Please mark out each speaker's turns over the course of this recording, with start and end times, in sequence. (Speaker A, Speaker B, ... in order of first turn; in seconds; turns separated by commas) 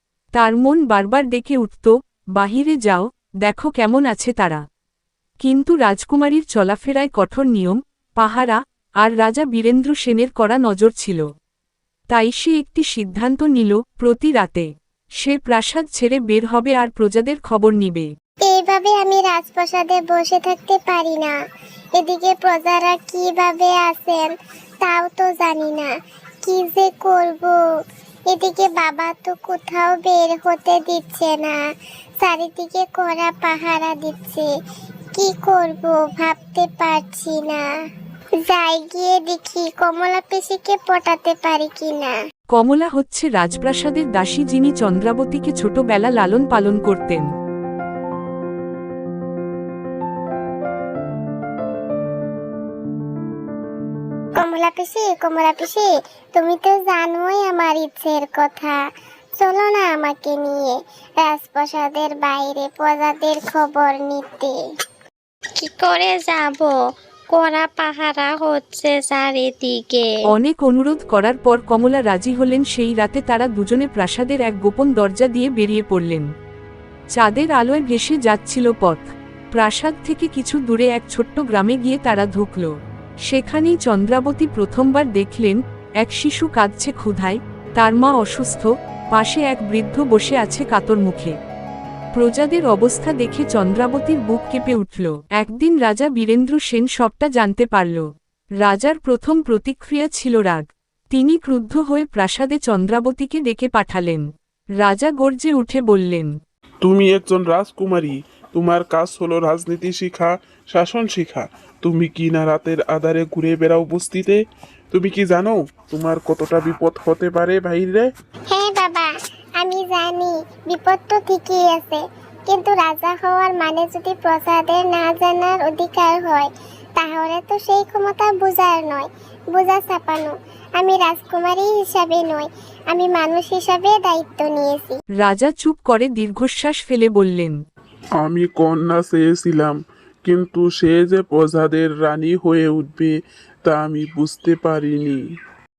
Speaker A: 0.3-4.6, Speaker A: 5.4-11.3, Speaker A: 12.1-18.1, Speaker B: 18.4-21.4, Speaker B: 22.0-25.9, Speaker B: 26.4-27.6, Speaker B: 28.3-31.6, Speaker B: 32.2-34.5, Speaker B: 35.1-37.7, Speaker B: 38.4-42.1, Speaker A: 42.5-47.3, Speaker B: 54.4-58.8, Speaker B: 59.4-64.6, Speaker C: 65.6-66.7, Speaker C: 67.3-70.0, Speaker A: 70.3-76.3, Speaker A: 77.1-91.4, Speaker A: 92.1-98.1, Speaker A: 98.6-104.3, Speaker A: 104.8-106.3, Speaker D: 106.8-114.4, Speaker D: 114.9-118.1, Speaker B: 118.5-135.0, Speaker A: 135.2-137.6, Speaker D: 138.2-143.1, Speaker D: 143.7-145.2